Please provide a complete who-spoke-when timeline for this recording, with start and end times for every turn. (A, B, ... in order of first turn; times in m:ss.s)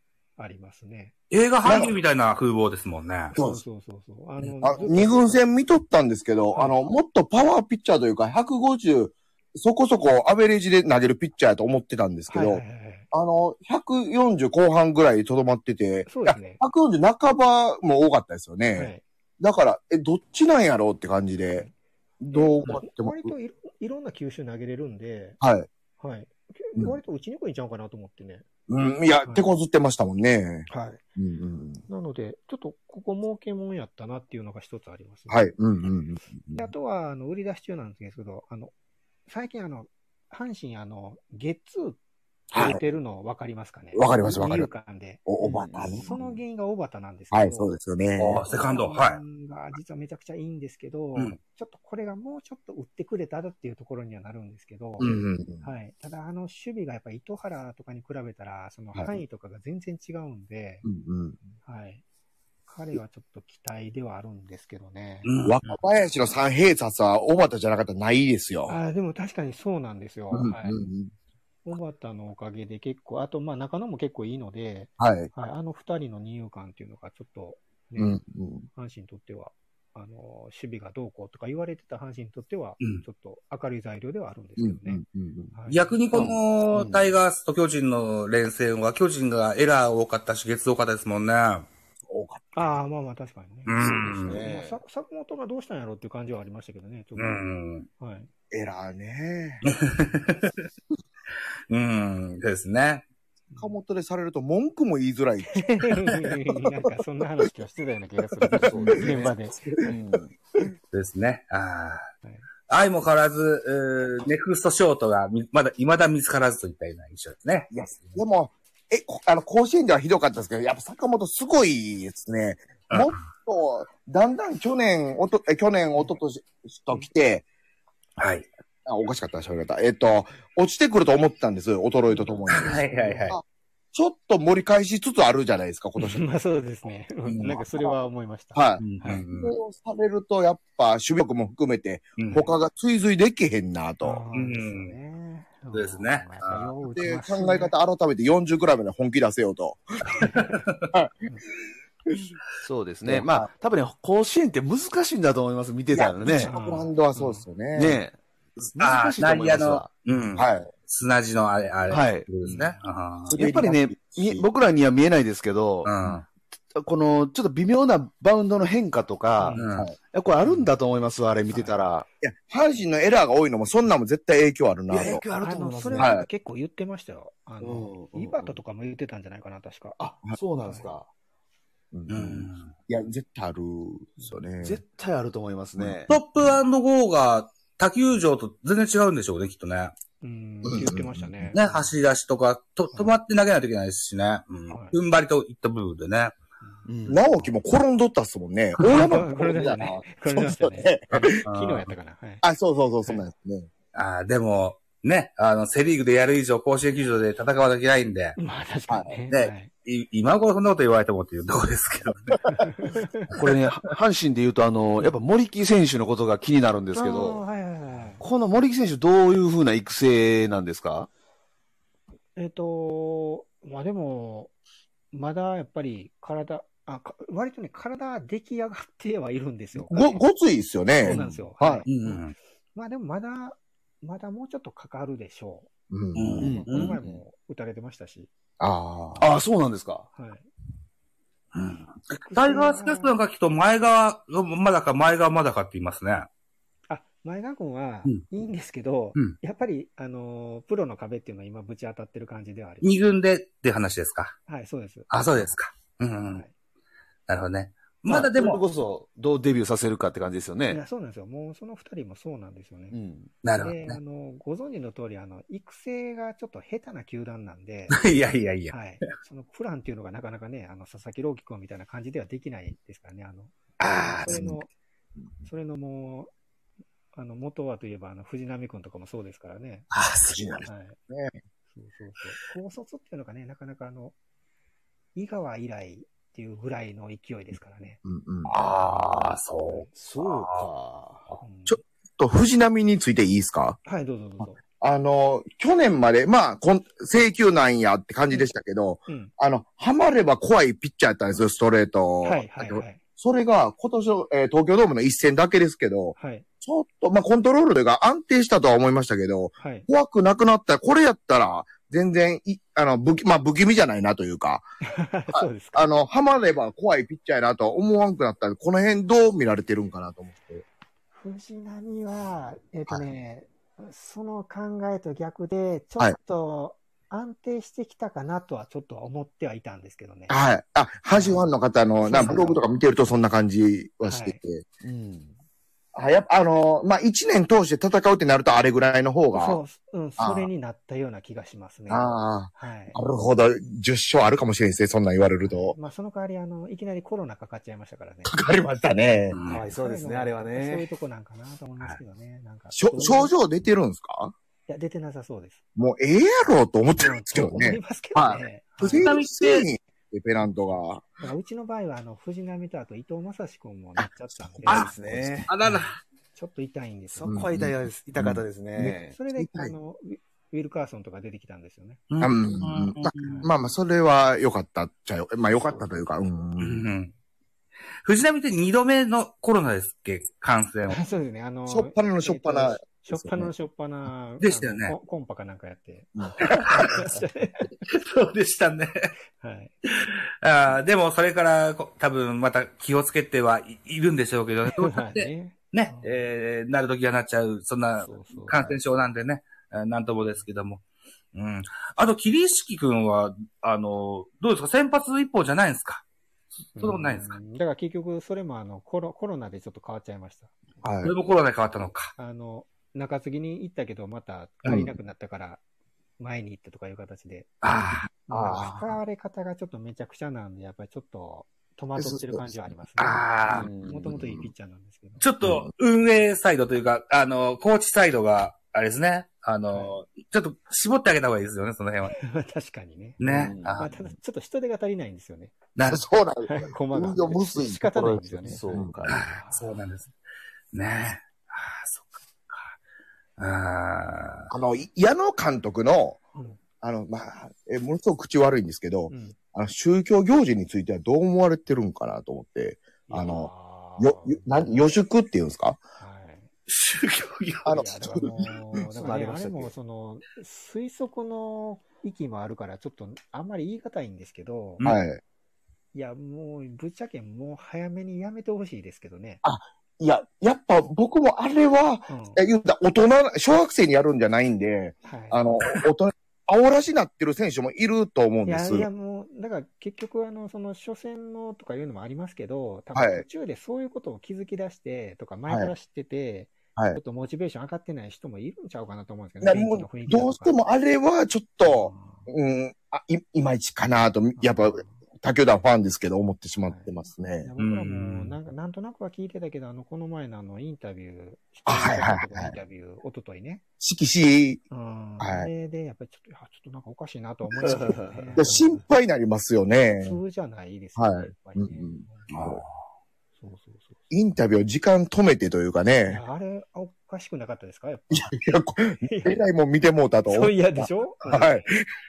0:00.4-0:01.1 A
0:01.3-0:03.3 B
0:01.6-0:02.0 C
0:03.3-0:03.6 C
0:03.3-0:05.4 A
0:04.6-0:21.7 C
0:12.3-0:13.1 A
0:16.1-0:16.6 A
0:18.8-0:19.0 A
0:22.2-0:23.3 C
0:22.3-0:25.4 A
0:25.4-0:25.7 C
0:26.0-0:28.4 A
0:28.7-0:31.8 C
0:30.7-0:31.0 A
0:31.9-0:35.5 A
0:35.3-0:36.7 C
0:36.5-0:38.7 A
0:39.3-0:42.0 A
0:42.5-0:45.2 A
0:42.5-0:42.8 C
0:43.9-0:44.7 C
0:45.3-0:46.4 C
0:45.4-0:46.1 D
0:46.0-0:47.7 A
0:47.3-0:48.4 C
0:48.2-0:49.2 B
0:48.3-1:00.8 A
0:55.0-0:55.6 C
0:59.0-0:59.2 C
1:00.8-1:01.4 C
1:01.6-1:02.0 A
1:02.7-1:05.3 A
1:05.2-1:05.6 B
1:05.4-1:08.8 C
1:08.7-1:10.8 A
1:10.3-1:11.1 C
1:11.6-1:18.2 A
1:15.0-1:15.3 C
1:18.0-1:18.7 C
1:18.8-1:25.0 A
1:24.6-1:25.5 C
1:25.5-1:25.9 A
1:25.7-1:31.7 B
1:26.1-1:27.2 D
1:32.1-1:32.7 C
1:32.5-1:37.4 A
1:33.7-1:34.4 B
1:33.9-1:34.8 D
1:37.2-1:37.9 B
1:38.0-1:38.3 A
1:38.5-1:39.6 C
1:39.6-1:40.6 B
1:41.7-1:43.0 B
1:43.6-1:45.7 C
1:45.5-1:49.6 A
1:48.5-1:50.3 D
1:48.6-1:49.9 C
1:50.9-1:52.1 B
1:52.7-1:57.7 B
1:57.7-2:07.4 C
2:02.9-2:03.2 B
2:08.2-2:08.5 B
2:08.9-2:16.2 C
2:12.1-2:13.3 A
2:12.5-2:13.4 B
2:16.0-2:19.2 A
2:17.3-2:18.0 C
2:18.6-2:24.2 C
2:18.8-2:19.6 B
2:22.2-2:22.5 B
2:24.0-2:27.7 A
2:24.3-2:25.0 B
2:25.7-2:26.7 B
2:26.8-2:30.3 C
2:30.1-2:30.6 A
2:30.3-2:30.9 B
2:32.1-2:32.3 C
2:32.6-2:36.5 D
2:33.0-2:33.5 C
2:35.9-2:38.0 C
2:36.4-2:37.4 A
2:37.7-2:38.2 D
2:38.6-2:43.4 B
2:38.8-2:39.9 D
2:40.4-2:40.7 C
2:41.9-2:42.3 D
2:43.3-2:44.5 C
2:43.4-2:45.9 D
2:45.8-2:46.3 B
2:46.8-2:52.0 D
2:49.4-2:49.7 A
2:49.6-2:49.9 B
2:50.4-2:50.7 A
2:51.5-2:51.8 A
2:52.2-2:55.2 C
2:54.9-2:56.1 D
2:55.4-3:00.0 A
2:56.0-2:56.3 C
2:57.6-2:58.6 D
3:00.0-3:01.1 D
3:00.6-3:00.9 A
3:01.9-3:04.8 C
3:02.1-3:02.7 B
3:04.6-3:06.2 D
3:06.1-3:09.9 B
3:10.2-3:11.9 A
3:10.6-3:11.3 C
3:11.5-3:16.4 B
3:14.7-3:15.0 A
3:16.9-3:17.2 D
3:17.1-3:21.4 C
3:18.8-3:22.4 A
3:21.4-3:21.9 B
3:22.4-3:23.7 C
3:23.9-3:28.4 B
3:28.4-3:29.7 A
3:28.9-3:29.2 C
3:29.3-3:32.4 B
3:32.5-3:33.3 A
3:33.3-3:37.4 D
3:37.0-3:38.2 A
3:38.2-3:41.1 D
3:42.4-3:44.5 A
3:45.1-3:50.2 A
3:49.9-3:51.9 C
3:51.0-3:55.7 A
3:51.0-3:51.4 D
3:51.9-3:52.3 B
3:55.9-3:56.6 C
3:56.2-3:57.0 B
3:56.4-3:57.2 D
3:56.4-3:58.3 A
3:58.6-3:59.3 C
3:59.2-4:00.1 D
4:00.1-4:00.5 A
4:01.5-4:06.3 B
4:02.2-4:03.2 A
4:06.9-4:12.9 A
4:12.8-4:14.4 B
4:14.5-4:15.1 A
4:15.1-4:16.4 B
4:17.3-4:18.6 B
4:18.1-4:20.8 D
4:20.7-4:23.0 A
4:22.9-4:23.3 D
4:23.4-4:24.0 B
4:23.6-4:28.0 A
4:27.9-4:28.8 B
4:28.7-4:34.7 A
4:33.8-4:34.5 B
4:34.3-4:34.6 C
4:35.4-4:36.3 A
4:37.1-4:39.9 A
4:39.9-4:40.7 B
4:40.3-4:41.4 C
4:40.6-4:41.0 A
4:41.7-4:44.2 A
4:45.2-4:48.0 A
4:48.0-4:48.5 C
4:48.4-4:50.7 B
4:50.0-4:51.3 D
4:51.4-4:51.8 A
4:51.7-4:53.8 C
4:53.8-4:54.6 A
4:54.8-5:14.6 C
5:02.2-5:03.0 A
5:06.2-5:06.4 A
5:09.6-5:09.9 A
5:14.9-5:15.9 A
5:15.3-5:20.6 C
5:21.1-5:30.4 A
5:30.3-5:34.6 C
5:31.1-5:31.5 A
5:32.0-5:32.6 A
5:34.0-5:34.4 A
5:34.8-5:35.3 D
5:35.9-5:39.6 C
5:39.3-5:43.0 A
5:40.2-5:40.5 C
5:41.9-5:45.8 C
5:45.4-5:48.3 A
5:48.2-5:49.4 C
5:49.3-5:49.7 B
5:49.5-5:50.9 D
5:49.7-5:53.3 A
5:52.7-5:54.3 C
5:54.7-5:55.6 A
5:55.8-6:01.1 C
5:57.0-5:59.1 A
5:58.8-5:59.7 B
6:00.5-6:05.0 A
6:04.0-6:05.3 C
6:04.7-6:05.5 D
6:05.5-6:06.0 B
6:05.6-6:07.4 A
6:07.1-6:09.2 D
6:07.3-6:09.7 C
6:09.1-6:12.1 A
6:12.1-6:13.4 B
6:12.2-6:16.8 C
6:13.2-6:13.5 A
6:16.6-6:17.1 B
6:18.0-6:21.0 B
6:20.9-6:27.8 A
6:21.7-6:23.5 C
6:24.4-6:25.0 B
6:26.2-6:27.1 C
6:26.5-6:27.0 B
6:27.9-6:29.1 B
6:29.4-6:29.8 A
6:29.9-6:40.8 B
6:34.7-6:36.2 A
6:38.0-6:38.8 A
6:41.3-6:46.0 B
6:46.8-6:47.4 B
6:46.8-6:50.5 A
6:50.8-6:51.1 C
6:51.0-6:52.1 B
6:52.2-6:55.6 A
6:54.6-6:54.9 C
6:56.2-6:57.6 A
6:57.6-6:58.6 B
6:58.3-7:05.2 A
6:58.3-6:58.9 C
7:02.0-7:02.6 C
7:03.0-7:03.7 B
7:03.5-7:04.2 D
7:04.0-7:04.5 C
7:05.2-7:12.2 B
7:05.4-7:05.7 C
7:12.1-7:13.2 A
7:13.2-7:14.0 B
7:13.2-7:13.8 D
7:13.8-7:15.6 A
7:15.8-7:16.0 B
7:15.9-7:19.0 C
7:16.5-7:19.7 A
7:18.0-7:19.4 D
7:19.0-7:20.1 B
7:20.7-7:22.7 B
7:23.4-7:24.5 B
7:24.5-7:26.2 C
7:26.8-7:35.8 C
7:29.1-7:29.4 A
7:33.1-7:35.0 A
7:36.0-7:36.5 A
7:36.7-7:37.8 B
7:37.6-7:38.5 C
7:37.7-7:44.8 A
7:38.9-7:39.7 D
7:44.8-7:45.2 C
7:45.9-7:49.4 A
7:49.4-7:58.9 C
7:52.1-7:52.4 A
7:55.1-7:55.6 A
7:58.5-8:10.6 A
8:03.0-8:03.2 C
8:09.4-8:17.5 C
8:11.6-8:12.3 A
8:14.4-8:14.9 A
8:16.6-8:23.6 A
8:17.6-8:18.4 B
8:21.7-8:22.6 C
8:23.8-8:24.6 C
8:24.7-8:28.8 A
8:25.2-8:25.5 C
8:27.6-8:28.3 D
8:28.4-8:30.2 C
8:30.0-8:32.3 A
8:31.0-8:32.6 C
8:32.3-8:32.7 B
8:33.4-8:34.1 A
8:34.1-8:36.2 C
8:36.1-8:38.4 A
8:38.1-8:41.8 C
8:39.0-8:39.4 A
8:40.3-8:41.7 A